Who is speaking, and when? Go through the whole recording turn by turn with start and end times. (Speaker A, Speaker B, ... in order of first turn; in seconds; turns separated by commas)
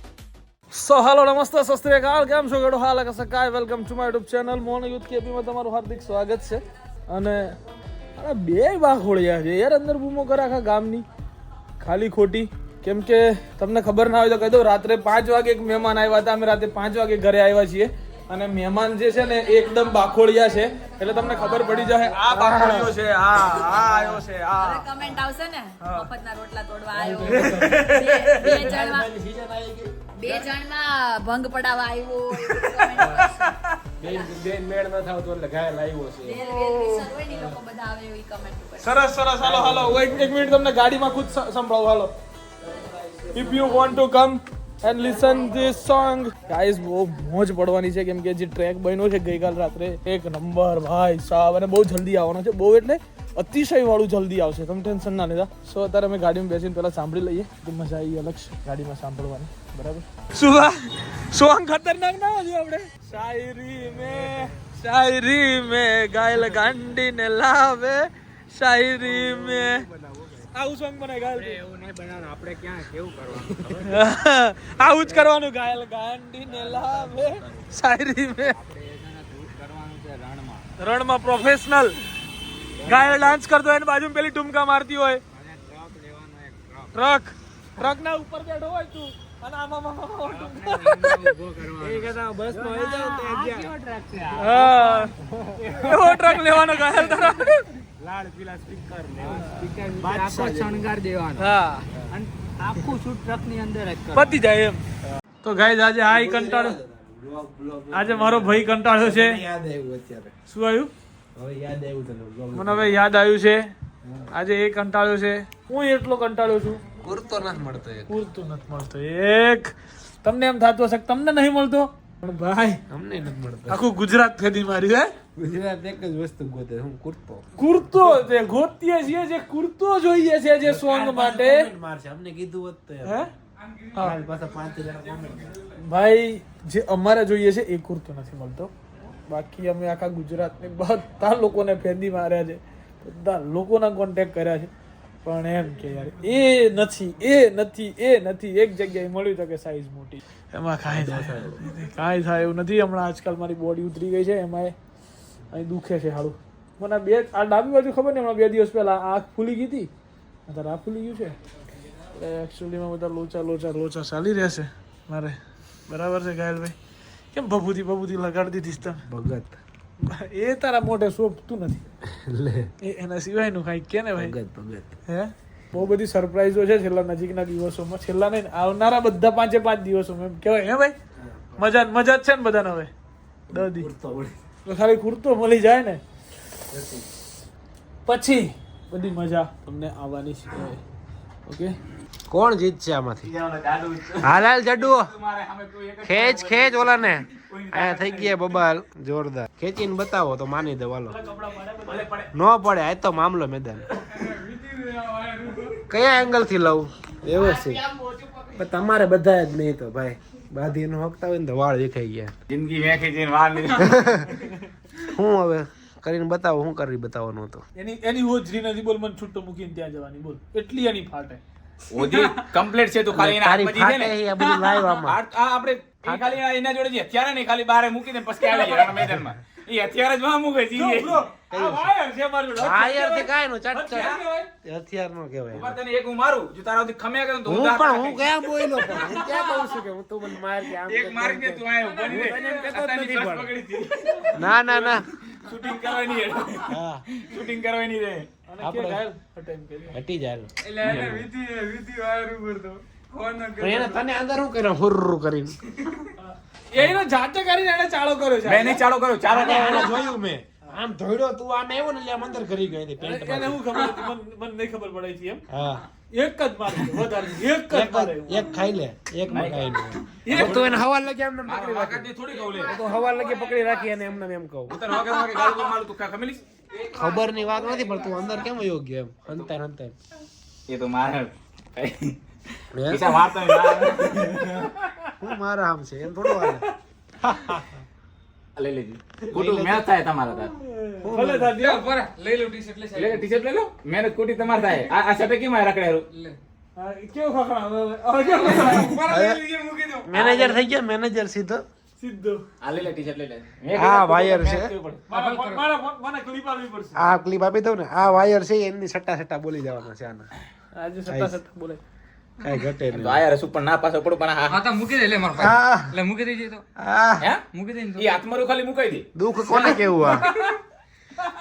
Speaker A: 0.7-7.5, Speaker A: 8.2-11.0, Speaker A: 11.8-24.9, Speaker B: 19.1-20.3, Speaker B: 20.9-21.8, Speaker C: 22.1-23.0, Speaker B: 24.5-29.1, Speaker A: 25.8-26.1, Speaker C: 26.9-30.5, Speaker A: 27.3-28.7, Speaker B: 30.1-34.4, Speaker A: 32.4-33.5, Speaker C: 34.0-36.4, Speaker B: 36.2-39.1, Speaker A: 36.4-37.1, Speaker A: 38.8-42.1, Speaker C: 39.4-40.4, Speaker A: 43.3-69.8, Speaker D: 69.0-70.5, Speaker A: 70.5-71.6, Speaker D: 71.3-74.0, Speaker E: 72.6-73.6, Speaker A: 73.8-78.5, Speaker D: 74.9-75.2, Speaker D: 76.7-77.6, Speaker E: 78.6-79.5, Speaker D: 78.7-80.6, Speaker A: 80.8-82.0, Speaker A: 82.8-85.2, Speaker D: 85.4-86.9, Speaker A: 86.9-91.3, Speaker D: 90.3-96.9, Speaker E: 90.9-91.4, Speaker C: 91.8-93.7, Speaker A: 94.3-95.1, Speaker C: 95.3-95.7, Speaker A: 95.8-97.7, Speaker C: 98.0-100.9, Speaker D: 99.2-101.5, Speaker A: 99.4-99.7, Speaker E: 99.6-100.0, Speaker A: 101.4-101.9, Speaker C: 101.9-102.2, Speaker D: 102.1-104.4, Speaker A: 104.1-104.8, Speaker A: 105.4-106.8, Speaker C: 106.1-110.3, Speaker A: 107.9-109.4, Speaker A: 110.5-110.9, Speaker C: 111.3-113.0, Speaker A: 112.5-113.7, Speaker A: 114.3-116.8, Speaker C: 117.0-118.1, Speaker A: 118.1-119.7, Speaker A: 120.2-122.8, Speaker C: 122.9-123.8, Speaker A: 123.7-125.1, Speaker C: 125.3-127.5, Speaker A: 127.6-131.7, Speaker C: 130.6-133.3, Speaker A: 133.0-133.3, Speaker C: 134.0-135.6, Speaker A: 135.7-144.7, Speaker A: 145.2-154.7, Speaker C: 150.9-151.6, Speaker A: 155.5-159.9, Speaker A: 160.5-161.3, Speaker A: 162.1-165.4, Speaker A: 165.9-166.8, Speaker A: 167.3-169.0, Speaker C: 169.0-169.6, Speaker A: 170.0-171.8, Speaker C: 172.1-172.7, Speaker A: 172.8-174.3, Speaker C: 174.2-174.9, Speaker A: 175.1-180.9, Speaker C: 181.2-181.6, Speaker A: 181.6-182.9, Speaker C: 183.5-184.4, Speaker A: 183.5-183.9, Speaker A: 184.6-186.0, Speaker C: 186.7-187.0, Speaker A: 188.1-190.8, Speaker A: 191.4-191.8, Speaker C: 192.3-193.3, Speaker E: 193.2-198.6, Speaker C: 194.2-195.1, Speaker C: 196.0-201.2, Speaker A: 201.1-202.2, Speaker E: 201.9-202.2, Speaker C: 202.3-203.8, Speaker D: 204.1-205.8, Speaker C: 205.9-207.9, Speaker C: 208.5-212.3, Speaker E: 212.5-214.3, Speaker C: 213.7-214.3, Speaker C: 215.0-217.6, Speaker A: 217.8-221.4, Speaker E: 221.9-231.2, Speaker A: 222.0-222.4, Speaker C: 223.1-225.2, Speaker C: 226.0-226.4, Speaker A: 228.4-228.9, Speaker A: 230.7-234.5, Speaker C: 231.5-231.9, Speaker C: 232.6-235.8, Speaker E: 233.9-234.2, Speaker E: 235.5-239.7, Speaker C: 237.4-243.5, Speaker E: 240.8-248.3, Speaker A: 241.8-243.4, Speaker A: 244.0-244.5, Speaker C: 244.3-245.1, Speaker C: 246.7-247.0, Speaker A: 248.5-250.0, Speaker C: 248.6-249.0, Speaker C: 249.9-251.2, Speaker D: 250.6-254.1, Speaker C: 253.6-255.6, Speaker A: 256.2-260.0, Speaker E: 258.4-260.0, Speaker C: 259.3-263.6, Speaker A: 263.0-265.4, Speaker C: 265.5-265.8, Speaker A: 266.1-268.6, Speaker C: 267.7-274.8, Speaker E: 269.3-270.8, Speaker A: 270.2-270.8, Speaker E: 271.4-272.8, Speaker D: 272.5-274.1, Speaker E: 274.7-276.4, Speaker D: 276.7-278.3, Speaker C: 276.9-279.9, Speaker E: 280.7-282.2, Speaker C: 282.7-283.1, Speaker E: 282.8-284.7, Speaker A: 284.8-285.1, Speaker C: 285.2-286.6, Speaker A: 286.2-286.7, Speaker C: 287.2-287.7, Speaker E: 288.6-290.5, Speaker C: 289.3-289.9, Speaker A: 290.5-291.9, Speaker C: 291.0-291.6, Speaker D: 291.6-293.3, Speaker E: 292.9-296.1, Speaker D: 294.5-294.9, Speaker D: 296.1-296.4, Speaker A: 296.8-299.0, Speaker D: 298.2-300.1, Speaker C: 299.1-299.4, Speaker C: 300.1-301.6, Speaker E: 300.1-300.6, Speaker A: 302.0-302.4, Speaker E: 302.6-305.1, Speaker C: 303.7-304.7, Speaker A: 305.1-307.1, Speaker D: 305.1-305.7, Speaker C: 306.9-310.3, Speaker A: 310.8-311.8, Speaker C: 311.1-311.4, Speaker C: 312.4-313.2, Speaker E: 312.9-314.6, Speaker D: 314.5-316.6, Speaker C: 315.3-316.0, Speaker C: 316.8-317.3, Speaker E: 317.2-319.1, Speaker D: 317.5-318.2, Speaker C: 319.1-320.3, Speaker D: 319.5-319.9, Speaker E: 319.6-320.6